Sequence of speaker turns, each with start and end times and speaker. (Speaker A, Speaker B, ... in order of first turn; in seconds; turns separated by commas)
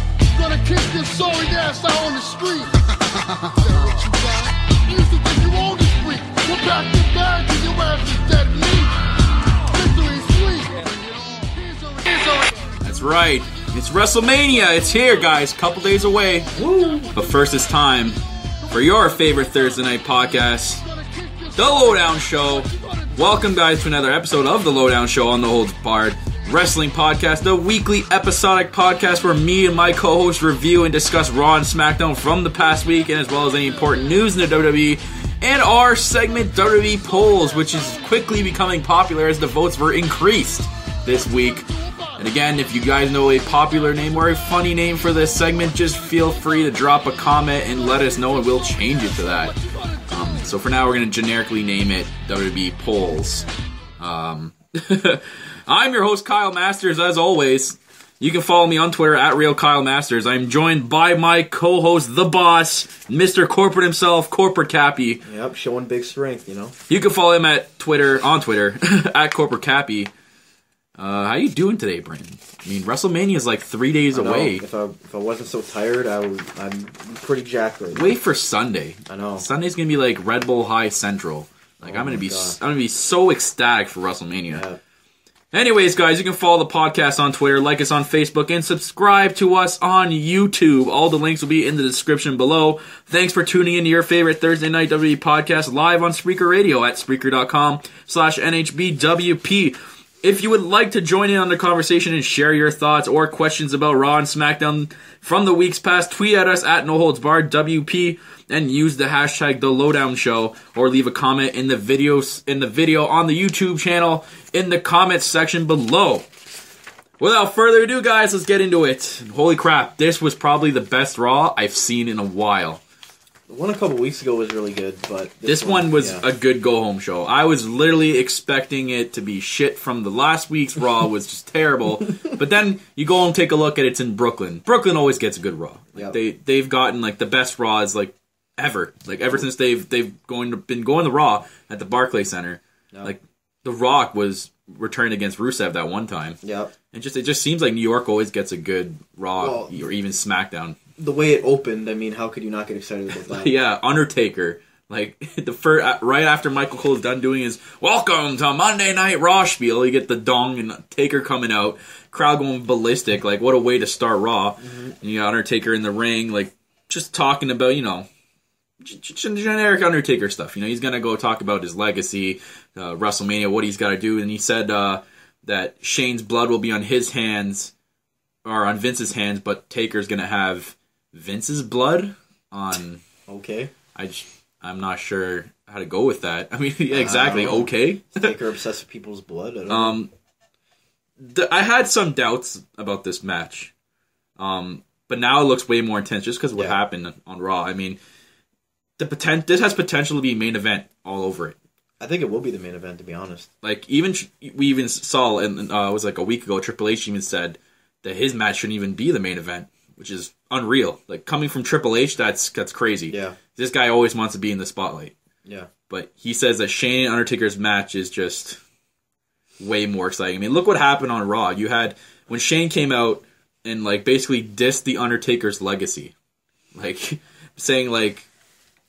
Speaker A: 0.3-8.9, Speaker A: 9.7-12.8, Speaker B: 12.8-16.5, Speaker C: 16.5-17.1, Speaker A: 16.6-17.2, Speaker B: 17.1-20.8, Speaker A: 20.1-23.6, Speaker B: 21.6-41.6, Speaker A: 33.1-34.2, Speaker A: 36.5-38.5, Speaker A: 41.1-50.6, Speaker B: 42.2-49.5, Speaker B: 50.1-53.5, Speaker B: 54.0-65.2, Speaker C: 65.2-66.7, Speaker B: 66.9-70.1, Speaker B: 71.0-74.6, Speaker C: 74.1-78.1, Speaker B: 77.9-84.6, Speaker C: 79.1-79.4, Speaker C: 81.8-82.6, Speaker C: 84.5-84.8, Speaker B: 85.5-116.3, Speaker B: 117.2-122.8, Speaker C: 123.5-126.2, Speaker B: 125.4-146.4, Speaker C: 146.4-146.7, Speaker B: 146.9-150.8, Speaker C: 149.4-149.9, Speaker C: 151.0-153.5, Speaker B: 153.1-168.1, Speaker B: 168.8-177.7, Speaker B: 178.4-183.0, Speaker C: 183.3-183.7, Speaker B: 183.9-188.3, Speaker C: 186.9-190.0, Speaker B: 189.7-190.1, Speaker B: 191.2-193.7, Speaker B: 194.4-198.0, Speaker B: 199.0-201.6, Speaker C: 202.0-203.5, Speaker B: 203.6-215.1, Speaker C: 213.1-213.4, Speaker B: 215.9-218.6, Speaker B: 219.6-226.1, Speaker B: 226.7-228.3